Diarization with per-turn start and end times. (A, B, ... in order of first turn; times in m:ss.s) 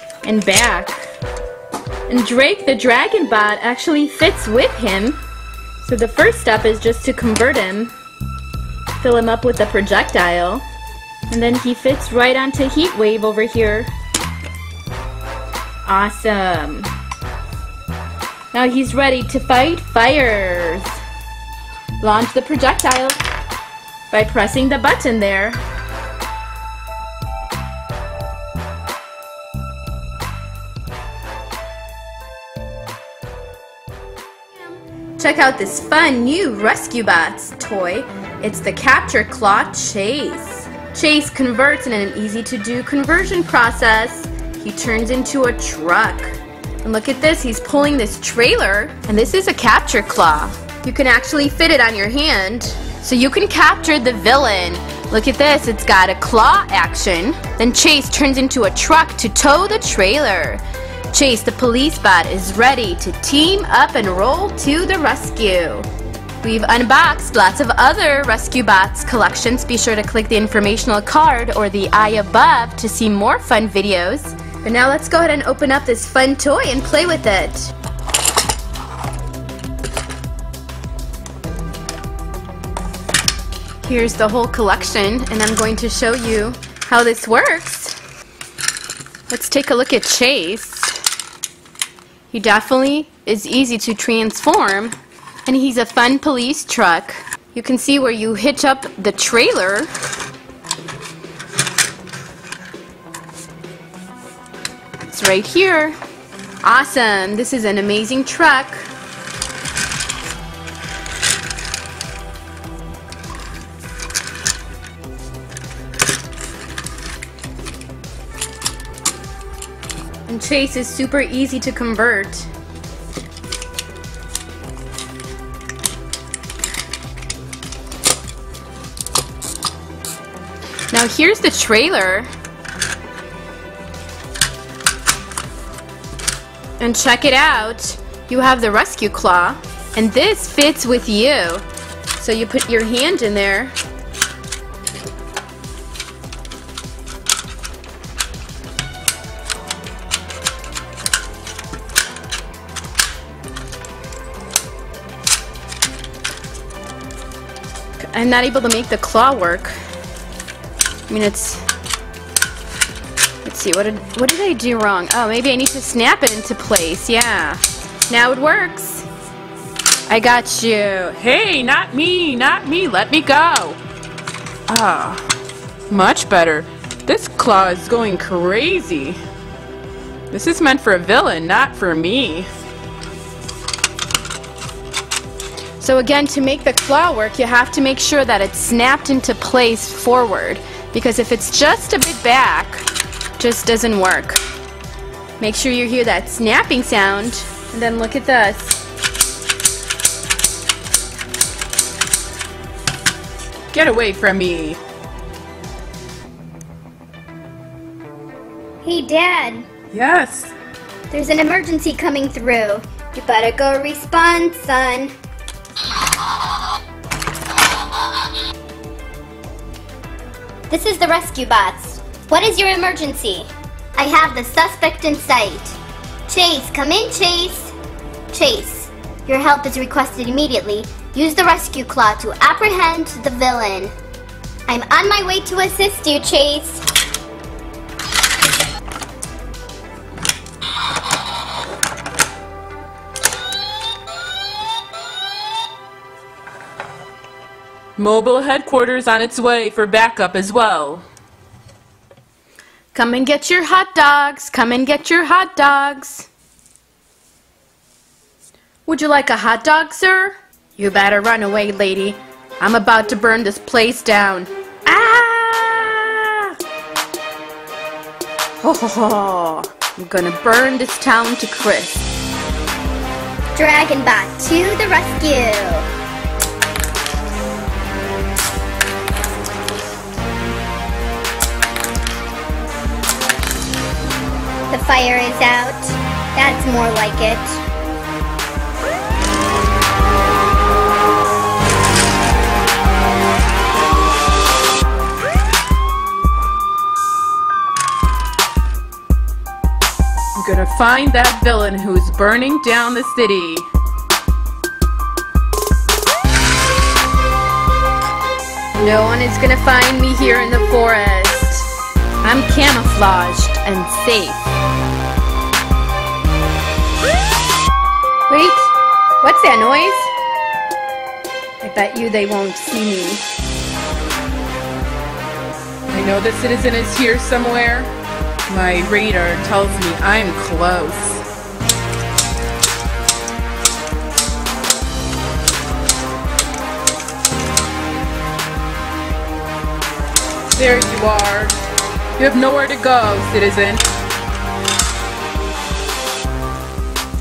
0:00.2-0:01.0 A
0:02.1-0:05.2 A
0:05.8-0:07.9 A
0:09.0-0:10.6 A
0:11.3-0:13.9 A
0:15.8-0:16.9 A
0:18.5-0:21.0 A
0:22.0-0:23.2 A
0:24.1-0:25.6 A
0:35.2-1:05.9 A
1:06.4-1:17.7 A
1:23.8-1:27.9 A
1:29.3-1:31.0 A
1:32.3-1:39.9 A
1:45.0-1:46.0 A
1:46.6-1:48.9 A
2:00.3-2:02.5 A
2:10.9-2:12.3 A
2:16.8-2:21.6 A
2:22.2-2:23.7 A
2:38.0-2:39.8 A
2:41.1-2:41.6 A
2:43.4-2:49.1 A
2:50.1-2:51.2 A
2:51.2-2:53.8 B
2:54.7-2:55.3 B
2:55.9-2:59.2 B
3:00.3-3:02.5 B
3:05.8-3:12.8 A
3:13.4-3:14.4 A
3:15.4-3:18.8 A
3:23.7-3:24.8 B
3:28.8-3:29.6 C
3:28.9-3:29.4 A
3:29.9-3:30.5 B
3:31.1-3:32.8 C
3:31.1-3:35.1 A
3:40.7-3:43.2 A
3:40.7-3:43.4 C
3:44.0-3:45.8 C
3:46.3-3:47.7 C
3:48.3-3:53.9 C
3:54.7-3:56.8 C
4:08.0-4:11.0 B
4:12.9-4:16.3 A
4:18.8-4:26.5 A
4:28.6-4:32.2 A
4:33.6-4:35.9 C
4:44.7-4:47.6 C
5:00.4-5:03.7 B
5:08.8-5:11.7 A
5:12.2-5:14.5 A
5:18.3-5:20.1 A
5:21.6-5:23.2 A
5:25.9-5:27.9 B
5:28.5-5:31.2 B
5:40.5-5:41.5 B
5:42.2-5:43.8 B